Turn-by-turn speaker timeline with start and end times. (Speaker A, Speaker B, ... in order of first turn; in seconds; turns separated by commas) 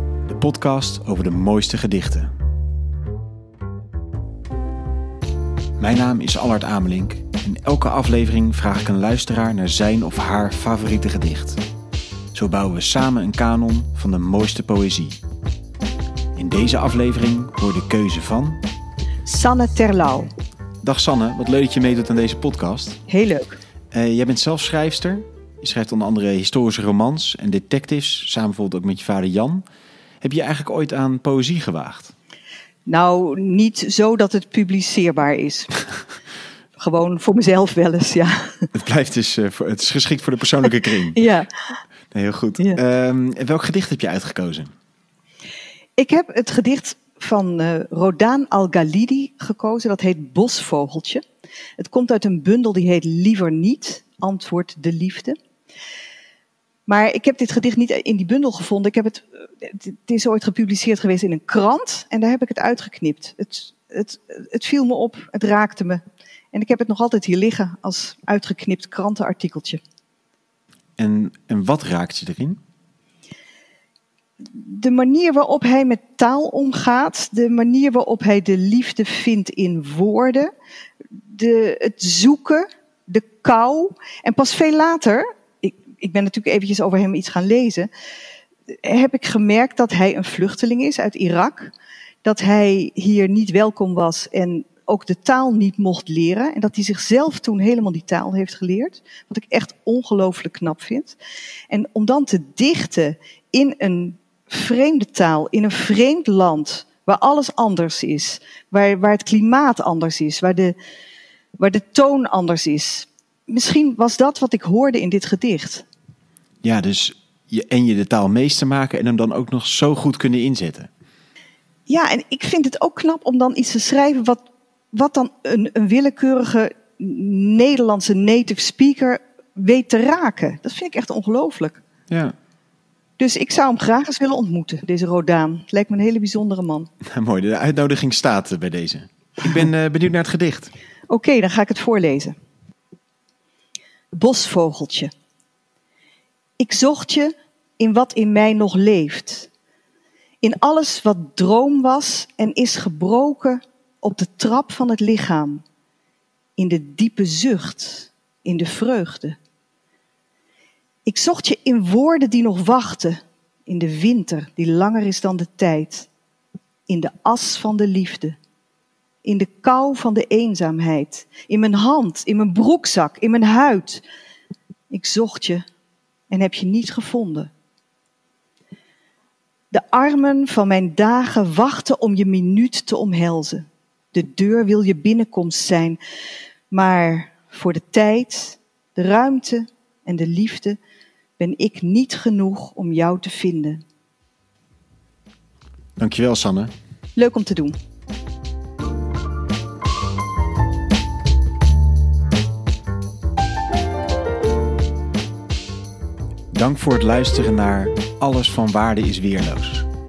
Speaker A: 0.2-2.3, Speaker A: 5.8-11.6, Speaker A: 12.3-15.2, Speaker A: 16.4-18.6, Speaker B: 19.2-20.3, Speaker A: 20.8-23.0, Speaker B: 23.1-23.5, Speaker A: 23.9-29.6, Speaker A: 30.2-32.1, Speaker B: 32.9-35.8, Speaker B: 36.8-38.7, Speaker A: 38.7-41.2, Speaker B: 41.1-41.5, Speaker A: 42.1-44.7, Speaker B: 46.0-51.2, Speaker B: 51.8-55.4, Speaker B: 56.9-66.0, Speaker B: 66.5-69.8, Speaker A: 71.0-72.6, Speaker B: 74.5-80.5, Speaker B: 81.2-87.9, Speaker B: 88.8-91.7, Speaker B: 92.2-101.2, Speaker B: 101.7-110.8, Speaker B: 111.6-115.8, Speaker A: 116.6-120.9, Speaker B: 121.9-131.8, Speaker A: 132.1-132.3, Speaker B: 133.2-136.9, Speaker A: 137.1-140.7, Speaker B: 141.1-142.3, Speaker B: 144.1-145.1, Speaker B: 146.6-149.5, Speaker B: 150.4-155.6, Speaker B: 156.6-159.3, Speaker B: 161.1-166.1, Speaker B: 166.9-168.3, Speaker B: 169.2-174.0, Speaker B: 174.9-175.6, Speaker B: 176.3-177.5, Speaker B: 179.7-186.0, Speaker B: 186.7-190.8, Speaker B: 191.4-193.8, Speaker A: 196.0-196.7, Speaker B: 197.2-197.7, Speaker A: 206.5-209.9